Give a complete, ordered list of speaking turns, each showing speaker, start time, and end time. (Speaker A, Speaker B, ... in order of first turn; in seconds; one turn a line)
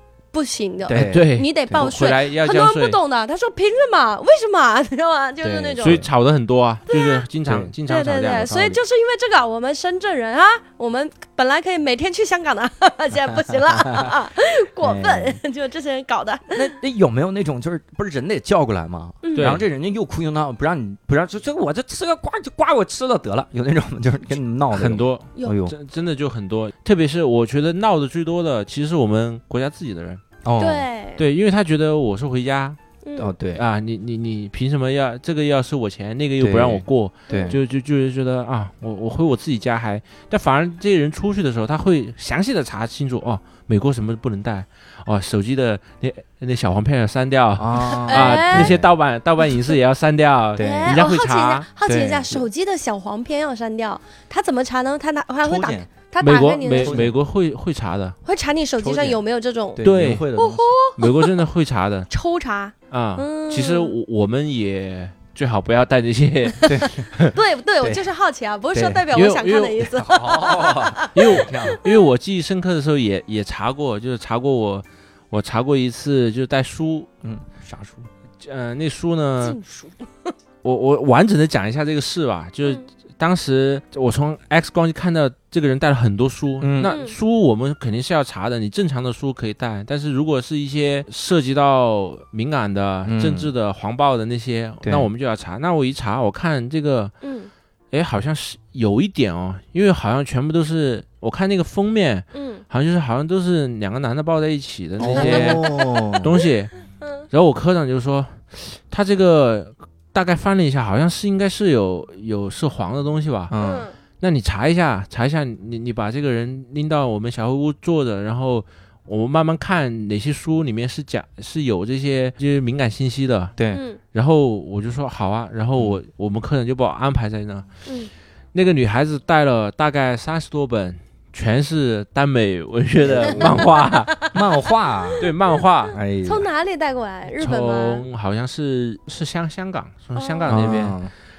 Speaker A: 0.3-6.0
Speaker B: 0.9-1.8
Speaker C: 0.9-3.0
Speaker B: 5.4-6.1
Speaker C: 5.8-8.8
Speaker A: 6.9-7.2
Speaker B: 7.5-7.7
Speaker A: 7.9-16.7
Speaker B: 13.3-14.1
Speaker B: 14.8-15.4
Speaker B: 16.5-25.7
Speaker A: 19.2-19.6
Speaker C: 19.4-19.6
Speaker C: 24.7-30.2
Speaker B: 30.4-30.9
Speaker A: 30.6-31.2
Speaker C: 31.2-32.8
Speaker A: 33.0-33.3
Speaker B: 33.2-33.6
Speaker C: 33.5-51.7
Speaker B: 36.4-37.6
Speaker A: 37.3-37.6
Speaker B: 47.6-48.9
Speaker A: 47.8-48.7
Speaker B: 50.6-51.0
Speaker A: 50.6-57.0
Speaker B: 51.9-52.5
Speaker B: 55.4-55.9
Speaker C: 56.2-58.2
Speaker B: 56.7-57.1
Speaker A: 58.2-59.8
Speaker B: 58.8-59.2
Speaker B: 59.8-60.7
Speaker C: 59.8-60.3
Speaker A: 60.4-61.4
Speaker C: 61.0-62.1
Speaker A: 62.1-64.0
Speaker C: 62.9-67.3
Speaker B: 66.7-67.1
Speaker A: 67.3-72.0
Speaker B: 68.7-69.0
Speaker C: 69.1-70.1
Speaker B: 70.0-71.8
Speaker C: 71.1-77.1
Speaker B: 77.2-78.1
Speaker C: 78.4-79.6
Speaker A: 79.4-80.3
Speaker C: 80.6-97.1
Speaker B: 86.6-87.0
Speaker A: 86.8-87.2
Speaker B: 93.0-93.5
Speaker B: 94.8-95.1
Speaker A: 97.2-97.5
Speaker C: 97.9-106.7
Speaker A: 102.3-102.6
Speaker B: 105.0-106.4
Speaker A: 105.1-106.2
Speaker A: 107.0-107.2
Speaker C: 107.3-113.5
Speaker B: 113.5-113.9
Speaker A: 113.6-114.0
Speaker C: 114.2-123.5
Speaker B: 123.6-123.8
Speaker A: 123.7-124.0
Speaker C: 124.1-127.7
Speaker B: 125.8-126.0
Speaker A: 127.9-128.1
Speaker C: 128.5-134.2
Speaker B: 133.0-133.7
Speaker A: 133.2-134.3
Speaker B: 134.3-135.3
Speaker C: 135.2-136.0
Speaker B: 135.9-136.5
Speaker A: 136.2-138.0
Speaker C: 137.3-141.0
Speaker A: 140.2-140.6
Speaker B: 140.5-141.1